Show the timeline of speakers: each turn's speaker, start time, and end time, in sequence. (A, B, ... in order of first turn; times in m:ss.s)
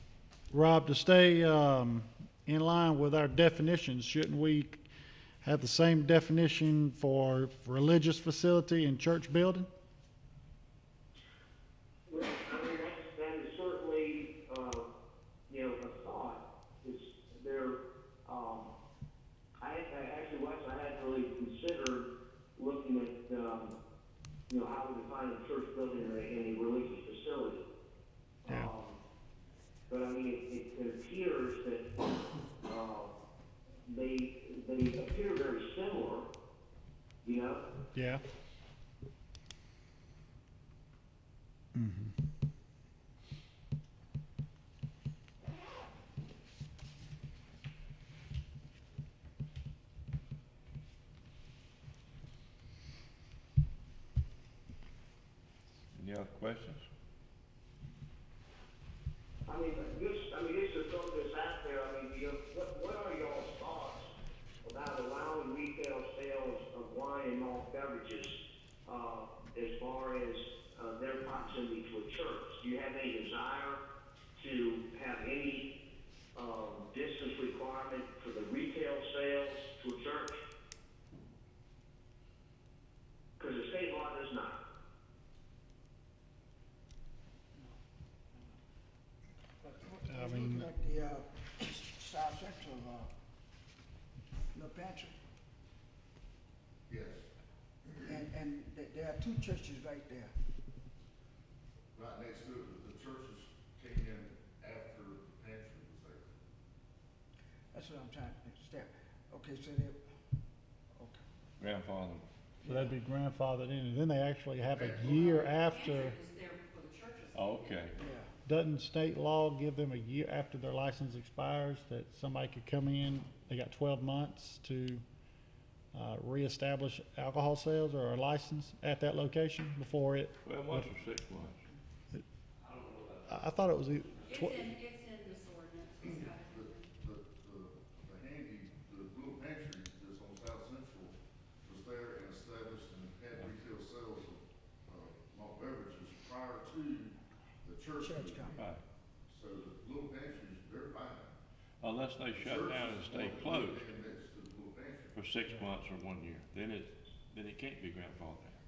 0:00.5-0:04.8 A
0:05.4-0:09.7 A
0:12.1-0:14.8 B
0:15.5-0:18.7 B
0:19.6-0:23.7 B
0:24.5-0:27.7 B
0:28.4-0:29.0 B
0:28.5-0:28.7 A
0:29.9-0:31.9 B
0:32.6-0:33.1 B
0:33.8-0:36.3 B
0:37.2-0:37.6 B
0:37.9-0:38.2 A
0:41.8-0:42.2 A
0:55.9-0:56.8 C
0:59.5-1:13.8 B
1:14.4-1:15.7 B
1:16.4-1:20.4 B
1:23.4-1:24.6 B
1:29.6-1:33.1 D
1:30.1-1:30.7 A
1:34.5-1:35.2 D
1:36.9-1:37.3 E
1:38.1-1:40.3 D
1:42.0-1:46.4 E
1:47.7-1:50.0 D
1:51.0-1:51.2 D
1:51.6-1:52.3 C
1:52.6-1:53.0 D
1:52.6-1:56.2 A
1:54.7-1:55.6 E
1:55.5-1:57.9 F
1:57.3-1:57.9 C
1:58.0-1:58.3 D
1:58.5-2:05.0 A
2:05.9-2:10.9 A
2:10.4-2:11.6 C
2:12.6-2:14.3 C
2:13.3-2:14.7 A
2:14.2-2:16.9 F
2:16.0-2:28.6 E
2:28.0-2:28.7 D
2:28.6-2:28.8 C
2:29.3-2:31.3 E
2:31.8-2:33.9 C
2:32.4-2:35.3 E
2:35.1-2:38.6 C